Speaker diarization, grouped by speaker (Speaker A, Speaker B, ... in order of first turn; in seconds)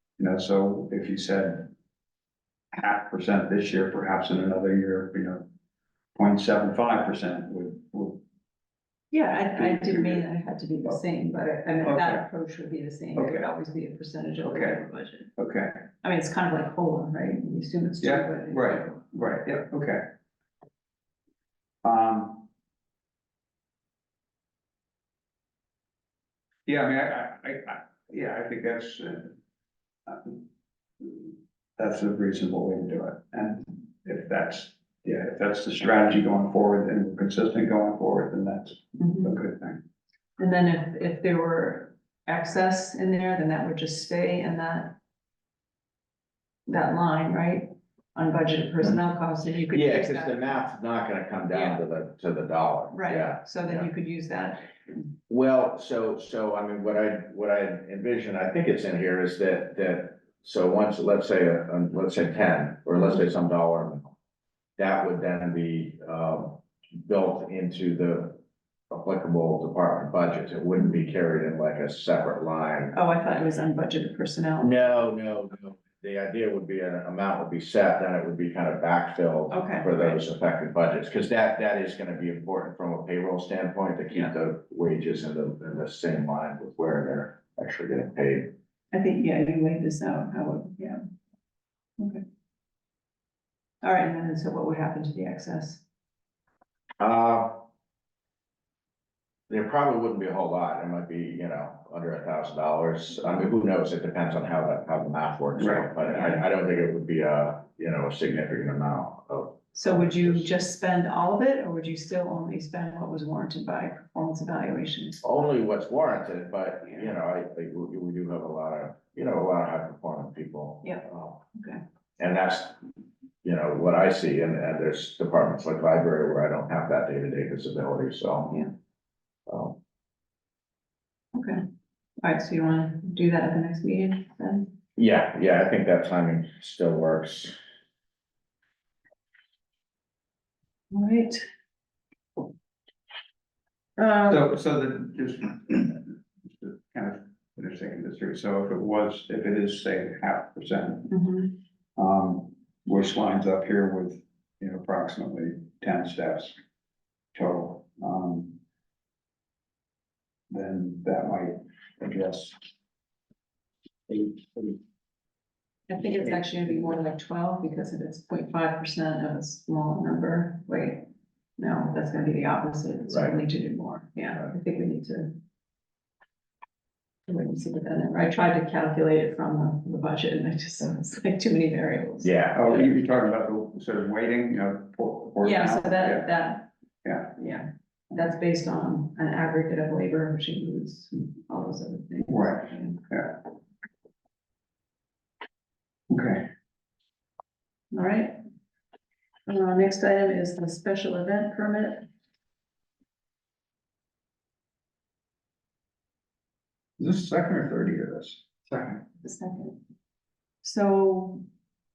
Speaker A: 0.2-1.7, 2.7-5.5, 6.1-8.2, 9.6-10.2, 11.8-12.2, 13.2-13.4, 14.4-14.8, 15.4-15.8, 18.0-20.1, 21.8-22.5, 26.6-29.4, 30.1-30.4, 31.0-39.8, 105.6-105.8, 144.2-151.1, 151.9-156.6, 157.3-158.6, 160.5-162.6, 164.1-164.8, 182.5-186.3, 187.0-187.3, 192.3-193.4, 196.1-196.5, 207.0-208.4
Speaker B: 9.1-15.3, 16.0-19.0, 39.0-39.4, 40.4-45.0, 46.7-50.6, 51.5-51.8, 52.9-55.0, 70.8-71.0, 72.9-75.0, 79.5-80.2, 88.9-91.0, 93.8-95.8, 106.0-106.5, 109.7-115.2, 121.5-121.8, 131.3-131.6, 132.2-134.7, 140.9-141.4, 144.0-144.4, 151.1-151.5, 165.9-175.4, 177.3-182.3, 185.4-186.7, 187.2-193.0, 197.9-198.4, 199.5-202.1, 209.2-209.8, 210.6-211.4
Speaker C: 49.7-53.9, 55.3-64.0, 64.8-72.9, 74.6-88.5, 97.0-97.7, 99.5-110.5, 115.2-121.4, 122.2-122.8, 123.4-128.6, 129.5-129.8, 135.0-137.6, 173.1-173.4, 182.2-182.6